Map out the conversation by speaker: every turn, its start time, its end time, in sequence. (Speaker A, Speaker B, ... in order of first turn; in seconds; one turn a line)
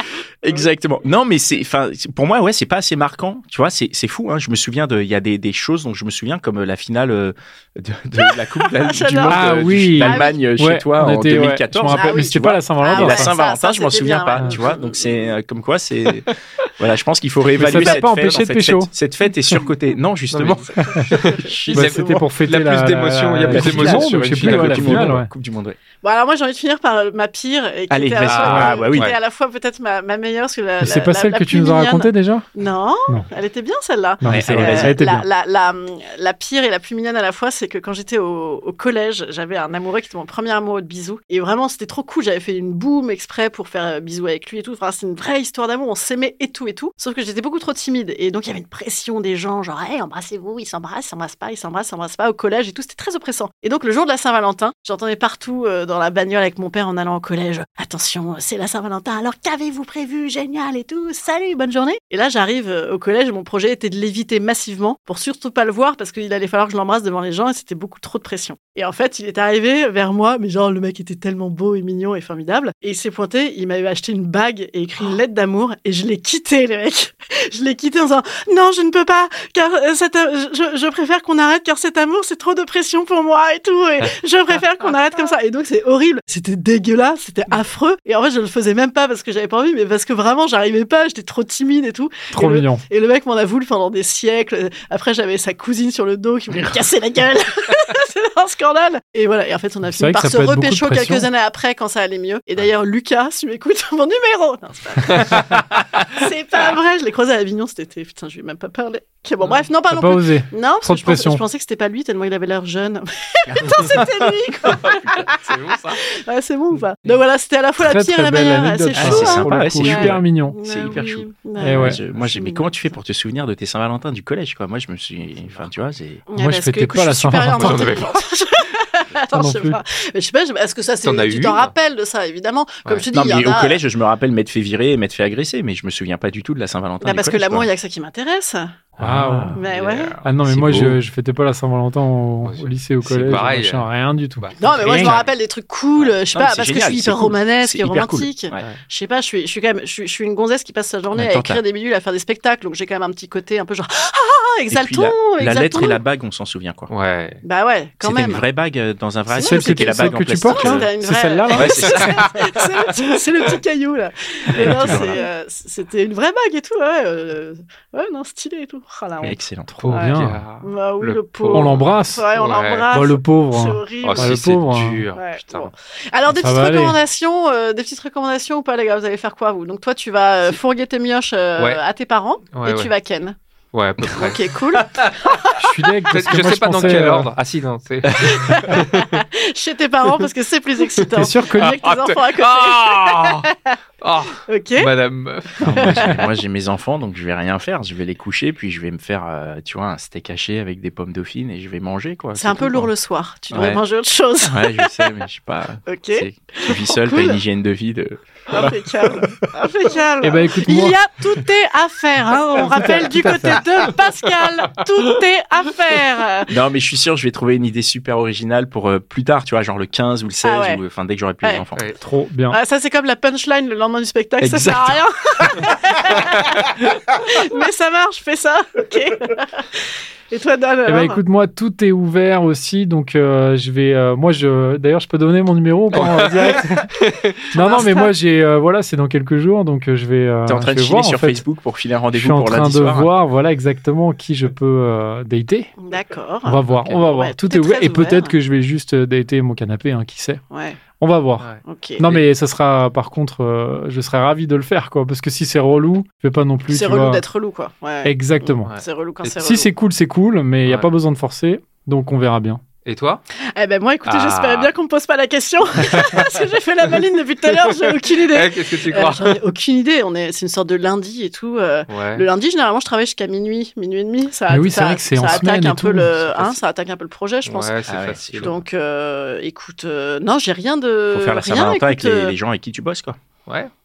Speaker A: 0.4-22.1
Speaker B: 8.2-10.4
Speaker C: 9.3-13.3
Speaker B: 11.9-15.2
Speaker C: 17.5-18.9
Speaker D: 20.3-25.1
Speaker C: 20.8-21.1
Speaker B: 20.9-21.5
Speaker C: 21.7-25.3
Speaker A: 23.5-25.8
Speaker B: 26.0-123.0
Speaker A: 27.9-29.1
Speaker D: 28.2-29.1
Speaker C: 30.8-32.5
Speaker C: 34.2-35.3
Speaker A: 34.3-35.0
Speaker C: 92.3-92.8
Speaker C: 99.9-101.3
Speaker C: 109.9-111.4
Speaker A: 113.5-115.3
Speaker D: 114.9-116.0
Speaker C: 117.8-120.6
Speaker A: 118.9-126.2
Speaker C: 121.6-122.0
Speaker B: 126.3-133.8
Speaker C: 126.4-127.9
Speaker D: 127.5-128.2
Speaker C: 129.3-129.8
Speaker D: 131.0-131.7
Speaker A: 133.1-137.7
Speaker B: 137.0-138.8
Speaker C: 139.0-139.5
Speaker A: 139.0-139.6
Speaker B: 139.6-140.2
Speaker D: 139.6-140.2
Speaker C: 140.2-145.2
Speaker A: 140.4-141.0
Speaker D: 142.4-143.9
Speaker D: 144.4-145.3
Speaker B: 144.6-156.0
Speaker A: 146.3-148.6
Speaker A: 151.1-151.6
Speaker A: 154.7-156.9
Speaker D: 156.9-157.4
Speaker B: 157.4-158.4
Speaker A: 158.0-160.9
Speaker B: 159.3-169.4
Speaker C: 159.4-162.0
Speaker A: 161.5-162.5
Speaker A: 164.5-165.2
Speaker A: 169.2-169.7
Speaker C: 169.7-170.4
Speaker D: 169.8-172.8
Speaker B: 170.6-174.4
Speaker C: 171.5-172.2
Speaker C: 172.9-175.0
Speaker D: 174.0-175.7
Speaker B: 175.2-183.4
Speaker C: 176.3-177.0
Speaker D: 181.6-181.8
Speaker D: 182.6-182.9
Speaker D: 183.7-185.3
Speaker B: 184.1-185.6
Speaker C: 185.6-187.3
Speaker D: 186.1-189.2
Speaker A: 188.1-188.5
Speaker B: 188.5-193.8
Speaker C: 191.1-191.7
Speaker D: 191.6-193.5
Speaker D: 194.0-196.2
Speaker B: 194.5-194.9
Speaker B: 195.6-196.2
Speaker A: 195.6-202.9
Speaker B: 202.4-205.1
Speaker A: 203.5-203.8
Speaker A: 204.4-208.7
Speaker B: 205.9-207.4
Speaker B: 208.5-216.5
Speaker C: 210.2-211.0
Speaker C: 212.6-213.6
Speaker A: 216.5-221.9
Speaker B: 220.4-220.8
Speaker C: 222.0-222.6
Speaker B: 222.5-231.2
Speaker A: 224.4-225.0
Speaker C: 230.9-236.9
Speaker D: 235.9-237.4
Speaker C: 237.5-241.4
Speaker B: 237.5-238.1
Speaker A: 240.4-243.1
Speaker C: 242.1-245.7
Speaker B: 245.8-248.4
Speaker C: 246.4-250.4
Speaker B: 250.5-250.8
Speaker C: 251.0-257.2
Speaker D: 251.4-252.2
Speaker B: 251.6-252.0
Speaker B: 256.7-259.7
Speaker C: 258.0-258.7
Speaker D: 258.7-259.3
Speaker C: 259.4-262.6
Speaker D: 262.9-263.2
Speaker B: 263.5-277.7
Speaker D: 264.1-264.7
Speaker D: 265.9-266.3
Speaker D: 266.9-269.4
Speaker D: 271.9-272.2
Speaker C: 274.5-276.2
Speaker D: 276.3-276.6
Speaker D: 277.4-278.5
Speaker A: 277.9-278.5
Speaker B: 278.4-282.4
Speaker A: 281.1-283.2